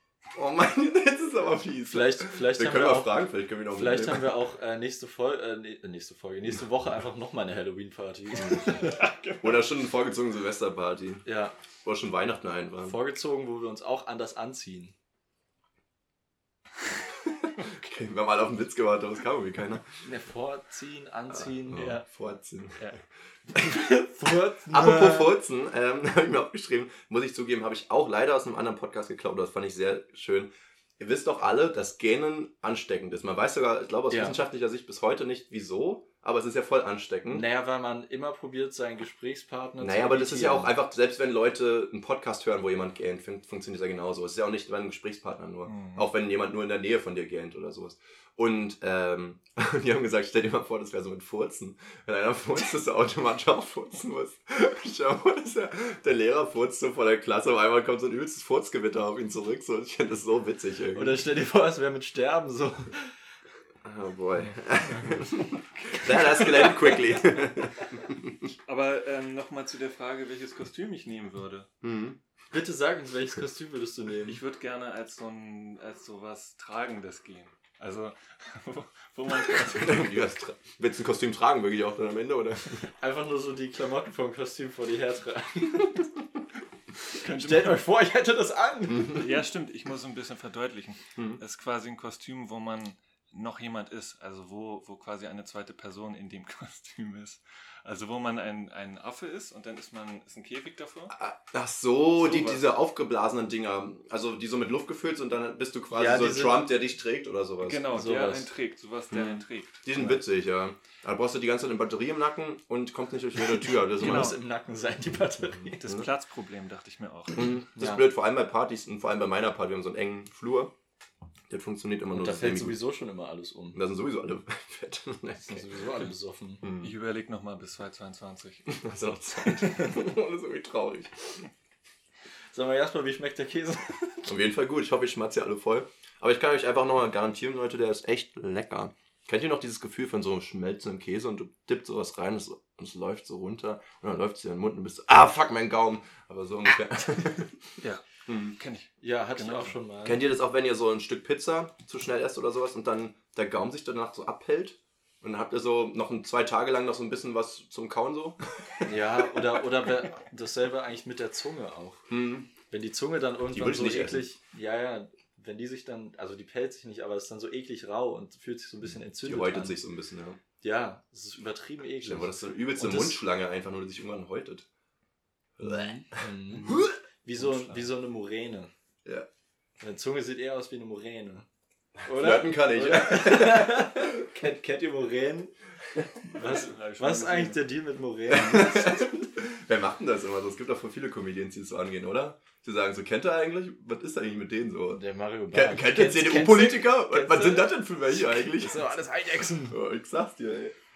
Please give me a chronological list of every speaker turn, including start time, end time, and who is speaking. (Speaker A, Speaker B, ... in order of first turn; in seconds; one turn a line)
Speaker A: 0.3-4.4
Speaker B: 1.9-9.0
Speaker A: 8.4-8.8
Speaker C: 8.8-9.7
Speaker A: 9.4-11.3
Speaker B: 11.2-11.5
Speaker A: 11.8-13.0
Speaker B: 12.8-14.9
Speaker A: 17.2-19.8
Speaker B: 20.0-22.1
Speaker A: 21.3-22.9
Speaker A: 23.5-23.9
Speaker B: 23.6-25.4
Speaker A: 24.7-37.5
Speaker B: 34.1-34.4
Speaker B: 37.3-40.7
Speaker A: 39.8-61.2
Speaker C: 45.7-46.0
Speaker B: 60.9-63.1
Speaker A: 63.8-68.4
Speaker B: 64.8-67.0
Speaker C: 68.7-71.7
Speaker A: 71.8-72.2
Speaker B: 72.5-74.4
Speaker C: 74.3-80.2
Speaker A: 79.7-82.9
Speaker B: 83.0-86.1
Speaker B: 87.1-89.3
Speaker C: 87.2-87.8
Speaker C: 89.1-101.2
Speaker A: 91.2-91.4
Speaker A: 101.1-107.8
Speaker C: 102.2-102.6
Speaker B: 105.9-106.7
Speaker C: 107.6-110.1
Speaker B: 107.9-108.5
Speaker A: 109.1-114.3
Speaker B: 113.8-115.8
Speaker C: 114.0-114.4
Speaker A: 115.6-116.1
Speaker C: 115.8-117.6
Speaker A: 117.3-120.7
Speaker B: 117.8-118.1
Speaker A: 121.5-122.8
Speaker B: 122.1-123.8
Speaker A: 123.7-125.8
Speaker B: 125.4-126.7
Speaker A: 126.6-126.9
Speaker C: 126.8-128.8
Speaker A: 128.7-131.4
Speaker B: 132.5-134.3
Speaker A: 134.3-147.6
Speaker C: 147.8-148.1
Speaker A: 148.3-148.6
Speaker C: 148.6-149.8
Speaker B: 149.0-150.2
Speaker A: 150.0-159.4
Speaker B: 158.8-162.1
Speaker A: 162.1-162.5
Speaker B: 162.7-169.8
Speaker A: 163.5-164.2
Speaker A: 169.2-170.4
Speaker B: 170.6-173.2
Speaker A: 172.0-174.7
Speaker A: 175.6-177.0
Speaker B: 175.6-178.7
Speaker C: 177.4-177.9
Speaker B: 179.8-181.5
Speaker B: 182.1-189.3
Speaker A: 182.1-184.1
Speaker C: 186.4-187.7
Speaker A: 188.3-195.0
Speaker B: 194.9-199.8
Speaker A: 195.5-198.9
Speaker A: 199.7-200.8